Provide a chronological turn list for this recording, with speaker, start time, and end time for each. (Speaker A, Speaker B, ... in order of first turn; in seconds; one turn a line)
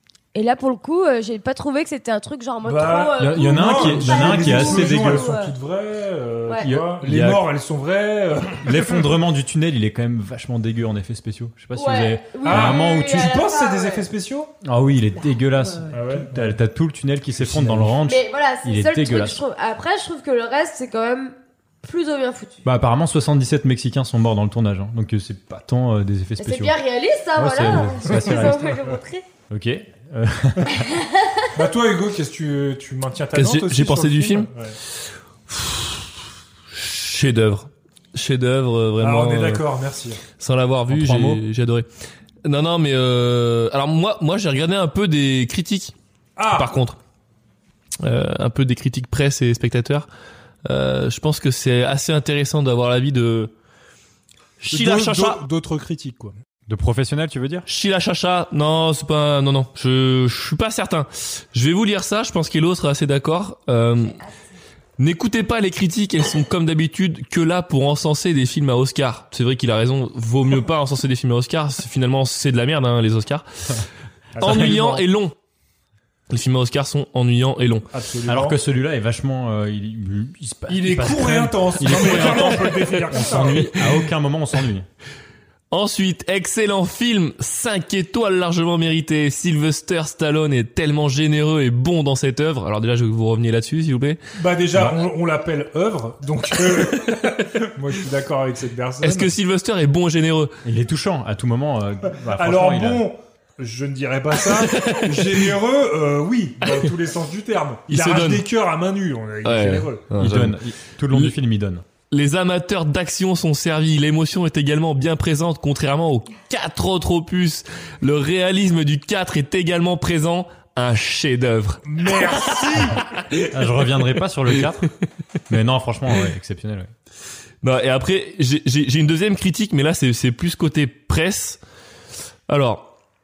Speaker A: 0.3-5.5
Speaker B: 2.6-9.1
Speaker C: 3.2-5.3
Speaker C: 6.6-7.5
Speaker C: 8.6-13.4
Speaker A: 11.8-14.1
Speaker B: 12.4-14.5
Speaker C: 14.6-19.4
Speaker A: 15.2-15.9
Speaker B: 15.9-16.6
Speaker B: 17.4-18.0
Speaker A: 18.1-22.6
Speaker C: 22.6-26.8
Speaker A: 26.4-29.2
Speaker C: 27.4-28.9
Speaker B: 28.1-28.5
Speaker C: 29.5-30.9
Speaker A: 30.9-31.5
Speaker B: 31.6-34.8
Speaker D: 33.3-34.5
Speaker D: 35.5-36.1
Speaker D: 36.7-39.6
Speaker B: 39.0-40.2
Speaker D: 40.4-41.9
Speaker C: 40.9-41.4
Speaker D: 42.4-45.9
Speaker B: 46.4-46.8
Speaker D: 46.5-47.0
Speaker D: 48.0-50.1
Speaker D: 50.6-53.5
Speaker D: 54.6-55.4
Speaker B: 54.7-56.3
Speaker C: 56.7-57.7
Speaker D: 57.7-64.2
Speaker D: 65.0-73.9
Speaker B: 74.4-75.0
Speaker D: 74.4-75.3
Speaker C: 74.4-74.7
Speaker D: 76.3-77.9
Speaker B: 77.9-78.6
Speaker C: 78.3-84.9
Speaker B: 80.7-83.7
Speaker D: 81.9-82.6
Speaker D: 83.4-83.7
Speaker D: 85.7-94.2
Speaker B: 94.4-99.3
Speaker D: 99.0-100.5
Speaker C: 100.6-103.1
Speaker B: 102.3-110.0
Speaker D: 104.6-105.4
Speaker D: 107.9-108.5
Speaker D: 109.5-110.6
Speaker C: 110.2-111.8
Speaker D: 111.1-111.3
Speaker D: 112.1-122.8
Speaker B: 121.9-123.1
Speaker C: 123.5-124.9
Speaker C: 125.5-126.9
Speaker D: 127.6-131.6
Speaker D: 132.5-132.9